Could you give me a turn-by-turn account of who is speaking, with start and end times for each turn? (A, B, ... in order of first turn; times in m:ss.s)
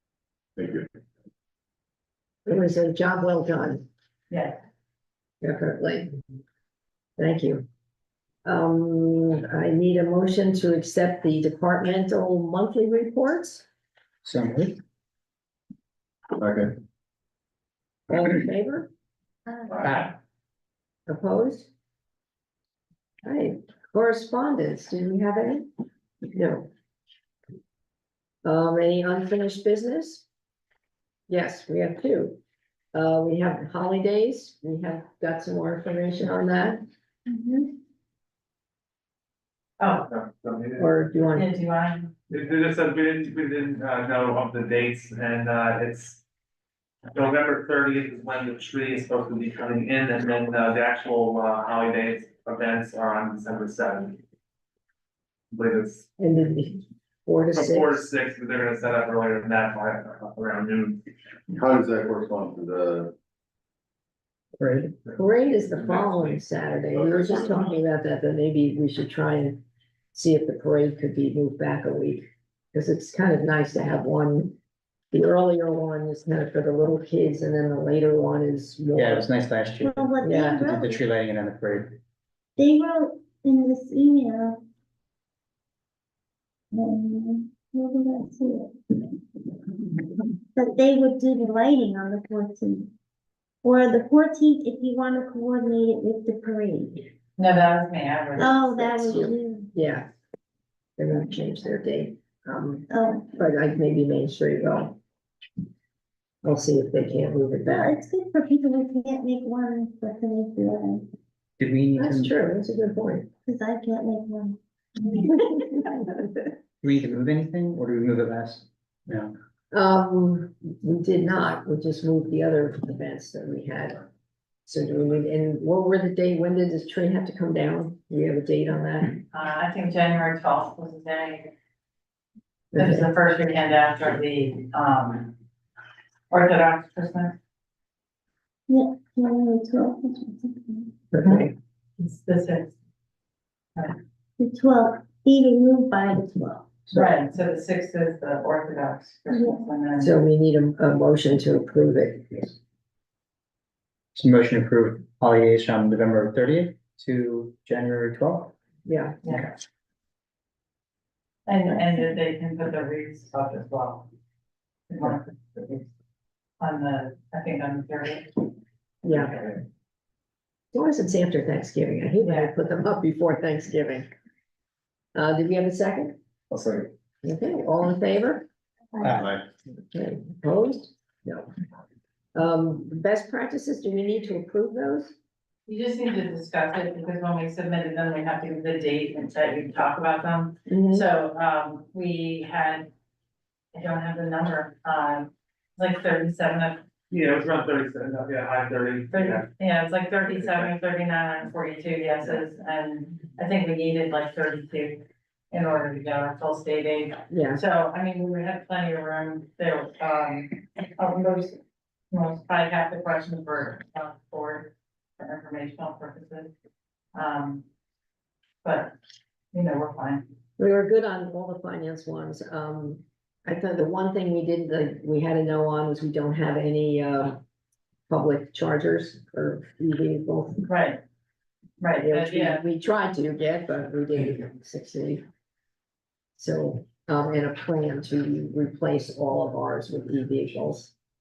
0:00.6-0:00.9 A
0:02.5-0:03.9 B
0:04.3-0:04.6 C
0:05.4-0:06.1 B
0:07.2-0:07.6 B
0:08.4-0:13.6 B
0:14.2-0:14.8 D
0:16.4-0:16.7 A
0:18.1-0:18.9 B
0:19.5-0:19.7 E
0:19.8-0:20.1 D
0:21.1-0:21.7 B
0:23.2-0:25.7 B
0:26.3-0:26.7 B
0:28.4-0:30.2 B
0:31.3-0:32.4 B
0:32.9-0:36.8 B
0:37.3-0:37.8 E
0:39.8-0:40.1 C
0:40.0-0:40.9 F
0:40.8-0:41.5 B
0:41.3-0:42.1 C
0:42.3-0:46.2 F
0:47.1-0:54.2 F
0:55.5-0:56.0 F
0:56.2-0:58.0 B
0:57.5-1:01.0 F
1:01.5-1:03.1 A
1:04.6-1:09.6 B
1:06.9-1:07.7 A
1:10.1-1:14.6 B
1:15.1-1:19.3 B
1:19.0-1:22.0 D
1:19.8-1:21.0 E
1:20.2-1:20.6 B
1:22.6-1:24.6 E
1:26.7-1:29.1 E
1:30.6-1:32.9 E
1:33.6-1:37.1 E
1:37.4-1:38.6 C
1:38.4-1:39.7 E
1:38.7-1:40.1 B
1:41.0-1:45.0 B
1:42.9-1:43.3 E
1:46.4-1:48.0 B
1:47.7-1:51.1 E
1:51.6-1:52.3 D
1:52.0-1:53.3 B
1:53.5-1:55.4 E
1:55.2-1:56.4 B
1:56.8-1:59.3 D
1:59.7-2:04.0 B
2:04.7-2:09.2 B
2:09.3-2:11.5 C
2:12.7-2:13.1 B
2:12.8-2:15.3 C
2:16.3-2:17.4 C
2:18.7-2:21.0 E
2:21.1-2:21.5 B
2:21.2-2:22.7 C
2:24.4-2:26.8 E
2:26.9-2:30.1 C
2:29.3-2:29.6 E
2:30.0-2:32.5 B
2:34.1-2:38.6 D
2:38.9-2:39.2 B
2:41.5-2:44.1 C
2:44.9-2:45.9 C
2:46.6-2:48.4 C
2:49.0-2:49.5 B
2:50.7-2:54.1 B
2:52.2-2:52.5 C
2:55.2-2:56.2 B
2:57.2-2:58.5 B
2:59.0-2:59.3 D
2:59.2-2:59.4 A
2:59.9-3:01.5 B
3:02.4-3:05.2 B
3:05.7-3:12.9 C
3:10.7-3:11.1 B
3:13.7-3:16.8 C
3:17.1-3:19.5 F
3:19.1-3:31.6 C
3:20.3-3:20.7 F
3:27.3-3:27.6 B
3:32.1-3:36.5 C
3:37.1-3:37.6 C
3:38.6-3:38.9 C
3:39.5-3:40.3 C
3:40.6-3:47.4 B
3:48.1-3:50.6 B
3:50.6-3:51.0 C
3:51.8-3:52.6 C
3:52.0-3:55.2 B
3:56.4-4:00.9 B